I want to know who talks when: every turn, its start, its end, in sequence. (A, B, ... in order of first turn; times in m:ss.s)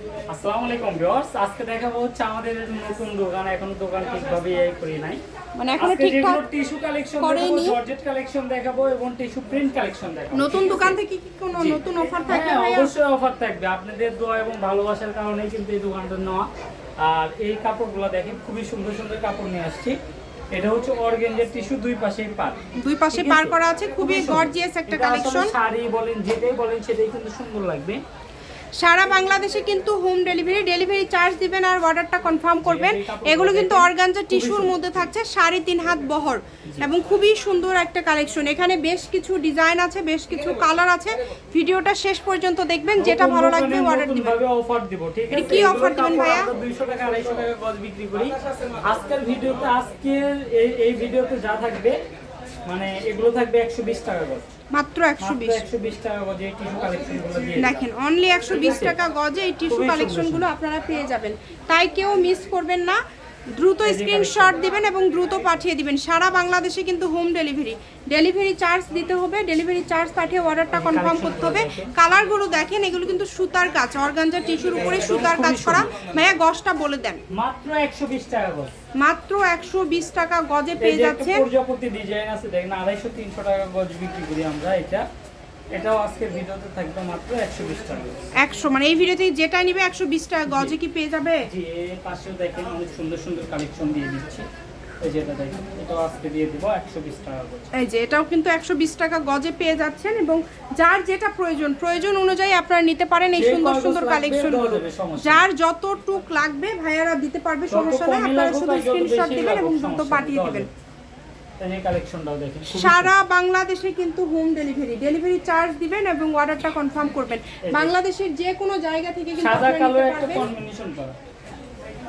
0:00.3-0:05.2 A
0:05.6-0:06.4 B
0:05.8-0:11.0 A
0:07.2-0:07.8 B
0:10.3-0:12.9 B
0:11.5-0:16.5 A
0:17.0-0:20.0 A
0:20.5-0:22.6 A
0:22.8-0:25.5 B
0:23.1-0:28.0 A
0:28.8-0:44.4 B
0:32.6-0:35.1 A
0:43.0-0:48.3 A
0:45.3-0:46.5 B
0:48.9-0:52.0 A
0:52.6-0:54.5 A
0:54.7-0:55.6 B
0:55.2-0:57.8 A
0:57.6-1:03.0 B
0:58.5-0:59.0 A
0:59.7-1:00.5 A
1:03.6-1:17.2 B
1:03.8-1:04.6 A
1:10.7-1:11.9 A
1:14.9-1:15.9 A
1:17.3-1:18.7 A
1:19.0-1:21.4 B
1:20.8-1:25.0 A
1:25.7-1:28.2 A
1:28.4-1:31.5 B
1:30.5-1:30.8 A
1:31.4-1:34.5 A
1:35.0-1:37.7 A
1:37.8-1:50.7 B
1:43.3-1:45.4 A
1:47.7-1:50.7 A
1:51.6-1:53.1 A
1:52.7-2:00.5 B
1:57.7-1:57.9 A
1:59.4-2:01.2 A